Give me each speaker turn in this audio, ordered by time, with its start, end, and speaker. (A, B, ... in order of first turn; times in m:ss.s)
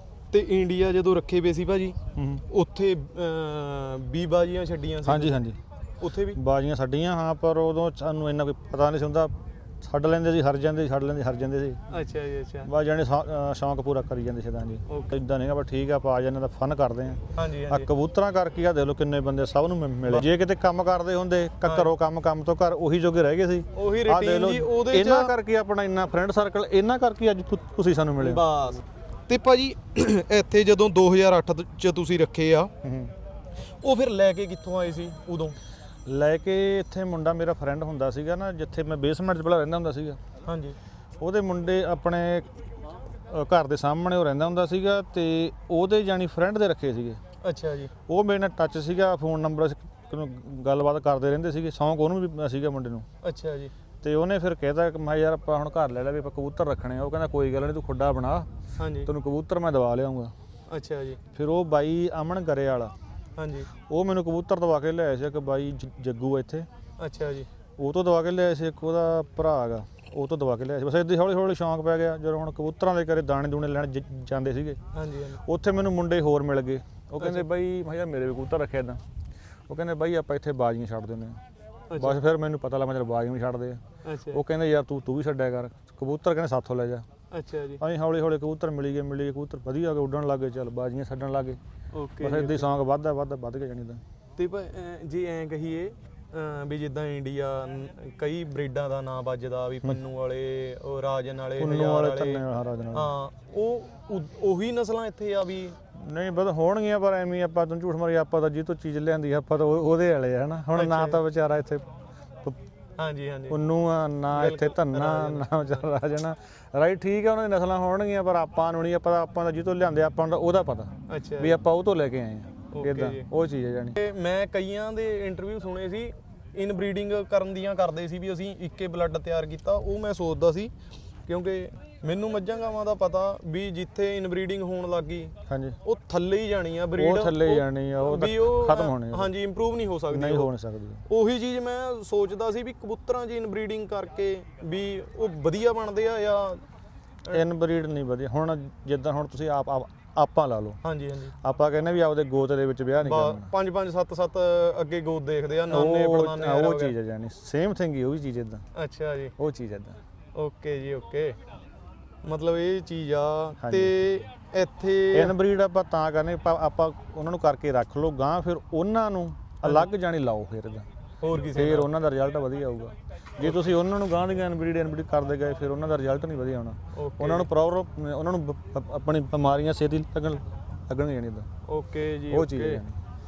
0:00.3-0:02.0 A
0:02.2-0:02.4 B
0:02.5-0:05.4 A
0:05.0-0:05.6 B
0:06.0-0:06.4 A
0:06.4-0:11.8 B
0:11.9-0:12.7 A
0:12.6-0:28.4 B
0:14.9-0:15.2 A
0:17.4-0:17.9 A
0:21.6-0:21.9 A
0:23.8-0:25.3 A
0:28.2-0:32.7 A
0:32.8-0:33.1 B
0:33.7-0:35.6 A
0:36.1-0:40.2 B
0:40.5-0:40.8 A
0:41.2-0:42.5 B
0:43.3-0:47.2 B
0:47.4-0:47.9 A
0:48.1-0:53.1 B
0:53.2-0:53.7 A
0:54.0-0:58.5 B
0:58.8-0:59.1 A
0:59.0-1:00.3 B
1:00.7-1:01.2 A
1:01.4-1:02.9 B
1:03.4-1:03.7 A
1:03.8-1:06.7 B
1:07.0-1:07.5 A
1:07.8-1:14.8 B
1:14.9-1:15.4 A
1:15.4-1:19.0 B
1:17.2-1:17.5 A
1:19.7-1:21.4 B
1:21.9-1:22.2 A
1:22.0-1:23.8 B
1:24.0-1:24.4 A
1:24.3-1:27.1 B
1:27.3-1:27.8 A
1:27.8-1:31.6 B
1:31.9-1:32.7 A
1:32.2-1:34.0 B
1:34.4-1:45.8 A
1:41.6-1:43.1 B
1:45.9-1:51.9 B
1:50.7-1:51.2 A
1:53.0-1:53.6 A
1:53.5-2:04.0 B
1:54.3-1:55.8 A
2:01.1-2:01.6 A
2:02.7-2:03.3 A
2:04.0-2:10.7 A
2:11.3-2:20.5 A
2:15.5-2:15.8 B
2:17.0-2:19.3 B
2:20.1-2:21.0 B
2:21.1-2:26.6 A
2:27.3-2:30.8 B
2:30.8-2:31.3 A
2:31.4-2:33.5 B
2:33.0-2:36.9 A
2:35.7-2:38.6 B
2:38.8-2:39.4 A
2:39.4-2:40.0 B
2:40.4-2:41.4 A
2:42.2-2:45.4 A
2:43.6-2:43.9 B
2:45.1-2:50.9 B
2:49.6-2:49.9 A
2:51.2-2:51.9 A
2:51.4-3:01.5 B
2:53.4-2:53.7 A
2:57.0-2:57.5 A
3:01.7-3:02.8 A
3:02.3-3:03.0 B